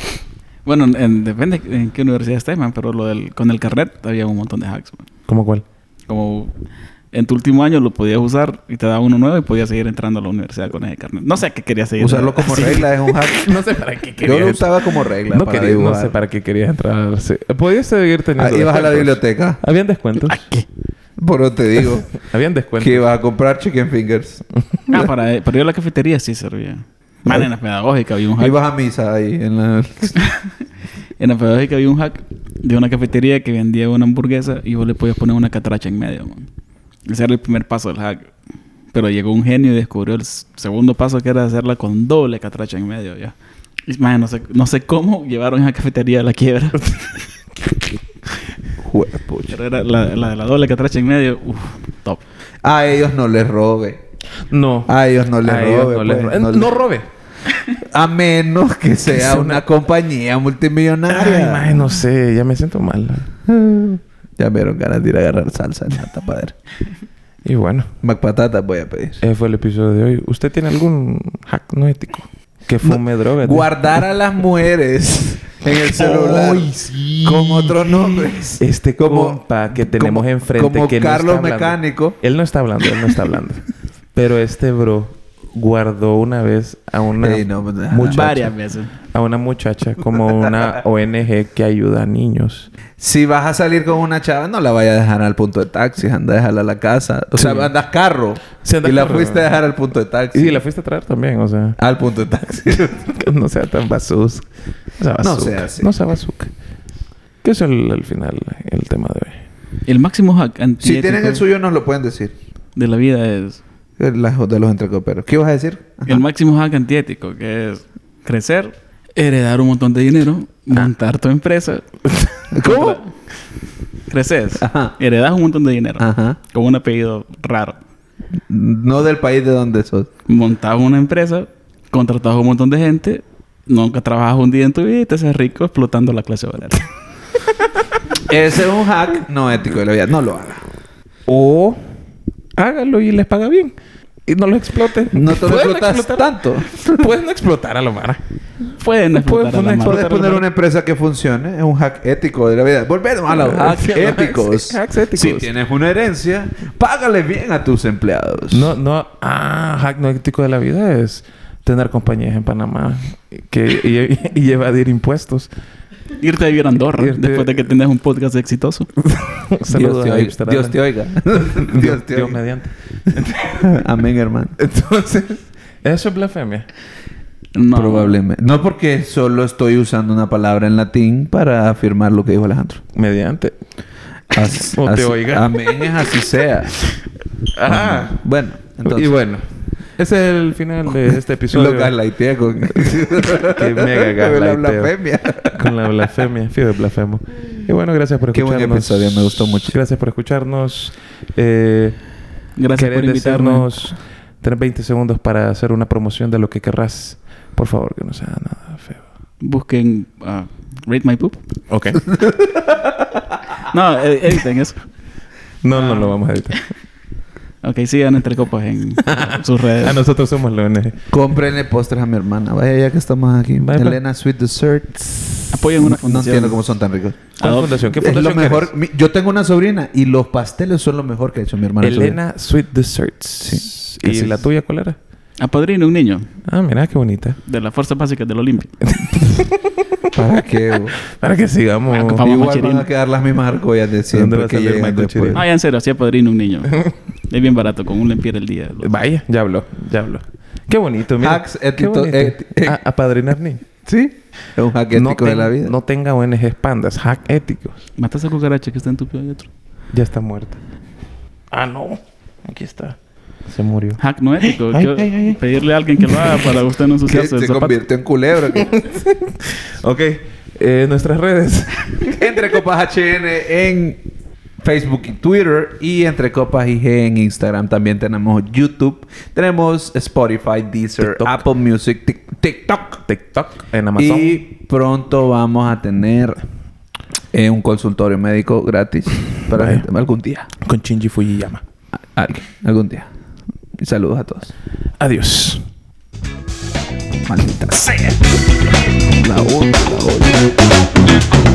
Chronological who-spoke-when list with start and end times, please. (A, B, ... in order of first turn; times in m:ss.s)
0:00.6-0:05.1 A
0:05.3-0:05.6 B
0:06.1-0:06.5 A
0:07.1-0:13.0 A
0:12.0-0:13.5 C
0:13.3-0:20.4 B
0:14.2-0:16.1 C
0:18.4-0:19.6 C
0:20.2-0:20.6 A
0:21.2-0:22.1 C
0:21.8-0:23.1 B
0:22.8-0:25.1 C
0:24.9-0:28.6 A
0:28.4-0:30.2 C
0:31.2-0:36.5 A
0:37.1-0:38.3 A
0:38.9-0:43.3 A
0:43.9-0:47.2 A
0:48.8-0:49.6 C
0:49.5-0:52.2 A
0:52.6-0:54.0 C
0:54.5-0:57.1 B
0:54.9-0:56.7 C
0:57.9-1:01.9 C
0:59.2-0:59.6 B
1:01.1-1:03.3 B
1:03.4-1:06.6 C
1:07.4-1:07.9 B
1:08.0-1:09.2 C
1:09.2-1:14.0 B
1:12.8-1:16.7 C
1:15.8-1:23.6 B
1:17.2-1:22.2 C
1:24.1-1:28.5 B
1:27.2-1:28.4 C
1:27.9-1:28.9 A
1:29.1-1:32.7 B
1:33.0-1:40.6 C
1:37.3-1:37.7 B
1:38.6-1:39.6 B
1:40.3-1:41.8 B
1:41.8-1:43.1 C
1:42.9-1:44.5 B
1:45.0-1:46.5 B
1:45.2-1:45.9 C
1:47.4-1:49.4 B
1:49.8-1:51.4 A
1:50.8-1:52.4 C
1:52.8-1:53.6 A
1:54.0-1:56.2 C
1:56.1-2:01.9 A
2:02.5-2:03.0 C
2:02.5-2:03.1 A
2:04.1-2:07.8 A
2:04.6-2:05.0 C
2:06.0-2:06.4 C
2:08.5-2:10.1 C
2:10.3-2:16.9 A
2:18.2-2:20.6 C
2:21.3-2:21.8 B
2:22.6-2:23.7 B
2:24.2-2:28.2 B
2:25.1-2:27.1 C
2:28.8-2:30.0 A
2:29.1-2:30.4 B
2:29.8-2:38.7 C
2:33.3-2:35.5 B
2:38.5-2:45.5 B
2:46.2-2:48.9 A
2:46.9-2:47.7 B
2:49.0-2:50.8 B
2:49.7-2:52.4 C
2:51.3-2:53.8 B
2:53.5-2:54.6 C
2:54.6-2:56.7 B
2:57.5-2:58.2 A
2:57.7-3:02.8 C
3:02.9-3:03.6 B
3:04.3-3:06.7 C
3:04.7-3:05.8 B
3:07.5-3:08.2 B
3:07.7-3:09.1 C
3:08.8-3:09.4 B
3:10.0-3:11.9 B
3:11.5-3:15.6 C
3:12.7-3:14.9 B
3:15.4-3:22.0 B
3:18.3-3:19.8 C
3:22.6-3:23.9 A
3:22.7-3:29.0 B
3:29.4-3:31.4 A
3:31.7-3:32.1 B
3:32.2-3:32.8 C
3:33.6-3:34.8 A
3:35.6-3:36.6 B
3:35.7-3:36.2 A
3:37.6-3:40.0 A
3:39.0-3:41.0 B
3:41.1-3:47.2 C
3:43.6-3:44.0 B
3:45.5-3:46.6 A
3:47.4-3:48.7 B
3:47.4-3:47.9 A
3:48.0-3:52.2 C
3:51.8-3:55.0 B
3:53.4-3:54.4 C
3:55.4-3:56.3 A
3:56.5-3:57.4 B
3:57.4-3:58.7 A
3:58.8-3:59.9 B
4:00.1-4:01.0 C
4:01.0-4:02.3 B
4:01.9-4:02.9 A
4:02.2-4:05.4 C
4:04.1-4:05.4 B
4:05.3-4:08.9 A
4:08.8-4:13.6 B
4:11.2-4:12.8 C
4:13.8-4:15.7 C
4:14.9-4:17.8 B
4:18.0-4:19.5 A
4:19.9-4:20.6 B
4:21.5-4:23.0 B
4:23.5-4:25.4 B
4:24.0-4:27.8 A
4:26.0-4:26.6 B
4:27.1-4:28.8 C
4:28.5-4:32.4 B
4:32.1-4:34.0 C
4:34.6-4:43.0 C
4:41.0-4:41.4 B
4:43.0-4:44.4 B
4:44.0-4:46.4 C
4:47.3-4:50.5 C
4:49.5-4:49.8 B
4:50.6-4:51.6 B
4:52.2-4:53.1 C
4:53.8-4:54.5 C
4:55.0-4:55.6 B
4:57.2-4:58.2 C
4:59.2-5:00.4 C